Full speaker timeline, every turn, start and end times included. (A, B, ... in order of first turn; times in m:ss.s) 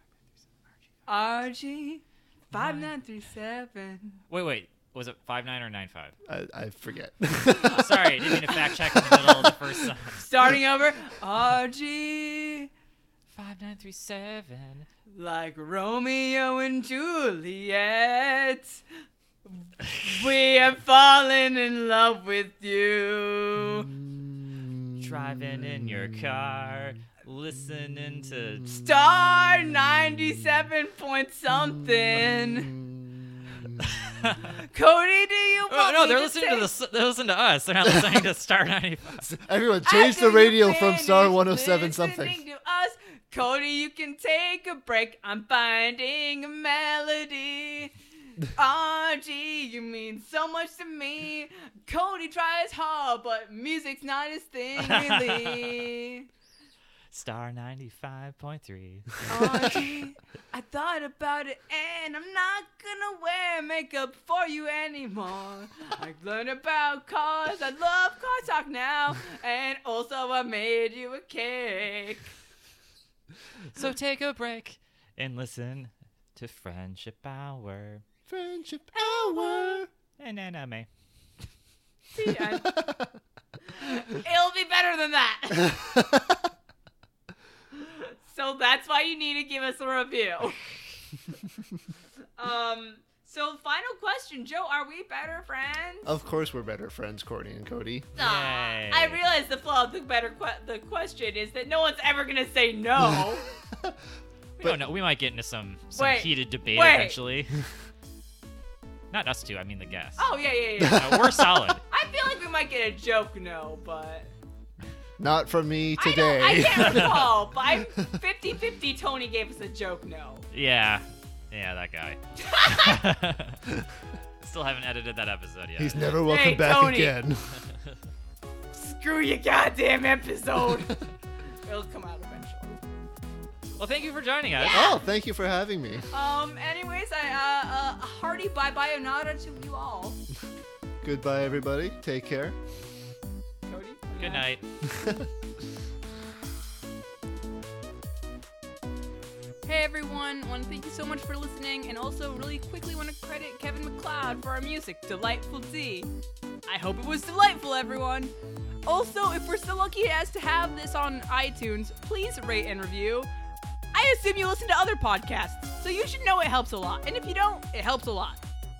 0:01.1-0:04.2 A
0:02.5-0:02.9 B
0:04.3-0:06.1 B
0:06.3-0:09.9 C
0:07.6-0:10.6 B
0:10.2-0:12.7 A
0:13.3-0:14.9 B
0:15.1-0:18.8 A
0:19.5-0:23.9 A
0:24.1-0:25.0 C
0:25.0-0:28.7 B
0:28.7-0:32.7 A
0:32.8-0:34.0 C
0:33.8-0:34.5 B
0:34.4-0:36.7 A
0:35.7-0:39.3 B
0:39.2-0:42.4 C
0:39.8-0:56.3 A
0:54.8-0:55.8 B
0:57.1-0:59.8 B
0:59.3-1:12.2 A
1:13.7-1:18.0 B
1:18.3-1:19.9 C
1:18.9-1:19.8 A
1:20.2-1:20.9 B
1:22.1-1:22.8 A
1:22.4-1:23.1 C
1:23.7-1:26.1 A
1:27.7-1:30.6 A
1:32.4-1:36.2 A
1:36.0-1:38.1 C
1:38.2-1:43.4 A
1:38.2-1:39.2 B
1:43.1-1:44.0 C
1:44.6-1:47.6 B
1:46.0-1:47.2 A
1:49.1-1:50.3 B
1:50.2-1:51.2 A
1:50.8-1:51.7 C
1:50.9-1:51.8 B
1:51.9-1:54.3 A
1:55.2-1:57.8 C
1:56.0-2:00.5 A
1:56.8-1:57.2 B
2:00.5-2:03.6 B
2:02.4-2:03.0 A
2:04.4-2:06.1 B
2:05.8-2:07.6 C
2:06.2-2:07.2 A
2:08.7-2:11.0 A
2:11.6-2:12.8 A
2:13.8-2:15.0 B
2:14.6-2:15.0 A
2:14.7-2:16.1 C
2:16.1-2:20.2 A
2:21.0-2:22.6 C
2:23.7-2:24.5 A
2:24.2-2:24.6 B
2:24.9-2:25.3 C
2:29.6-2:36.1 A
2:36.7-2:38.3 A
2:38.9-2:43.3 A
2:43.9-2:48.4 A